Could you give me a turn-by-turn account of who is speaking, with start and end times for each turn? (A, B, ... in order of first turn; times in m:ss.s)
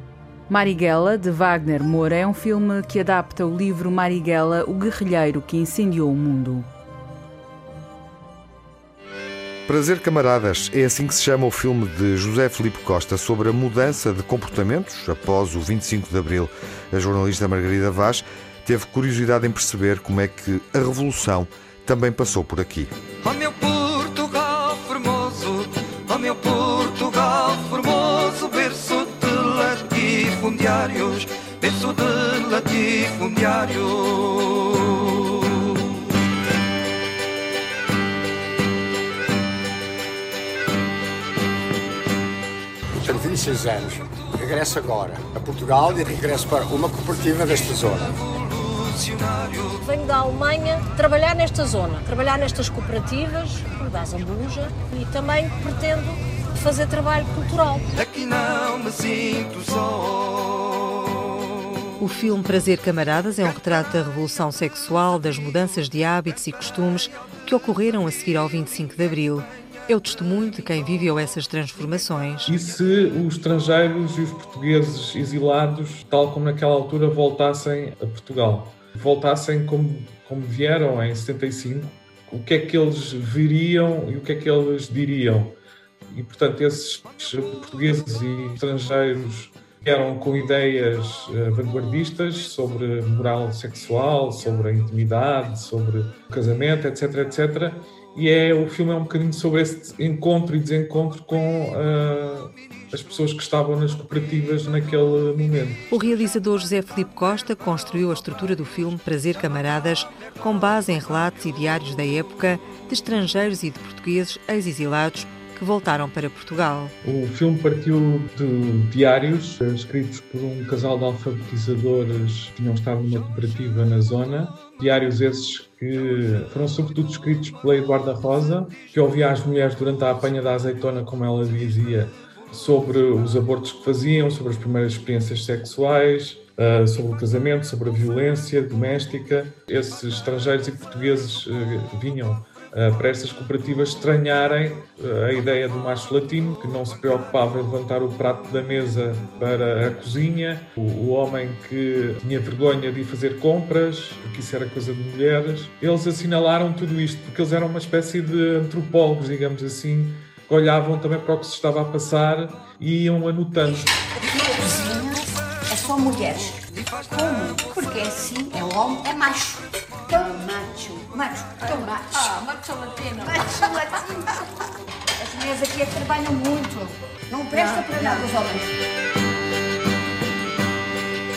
0:00.5-0:06.7 A
0:09.7-0:22.9 B
0:23.2-0:35.0 C
0:42.9-0:48.2 D
0:48.4-0:49.8 C
0:49.8-0:57.8 E
0:58.0-1:00.9 C
1:02.0-1:12.5 F
1:12.5-1:25.6 G
1:26.1-1:45.8 G
1:45.9-1:56.9 F
1:57.0-2:43.9 G
2:44.3-2:52.5 H
2:53.0-2:54.4 H
2:55.2-2:58.7 H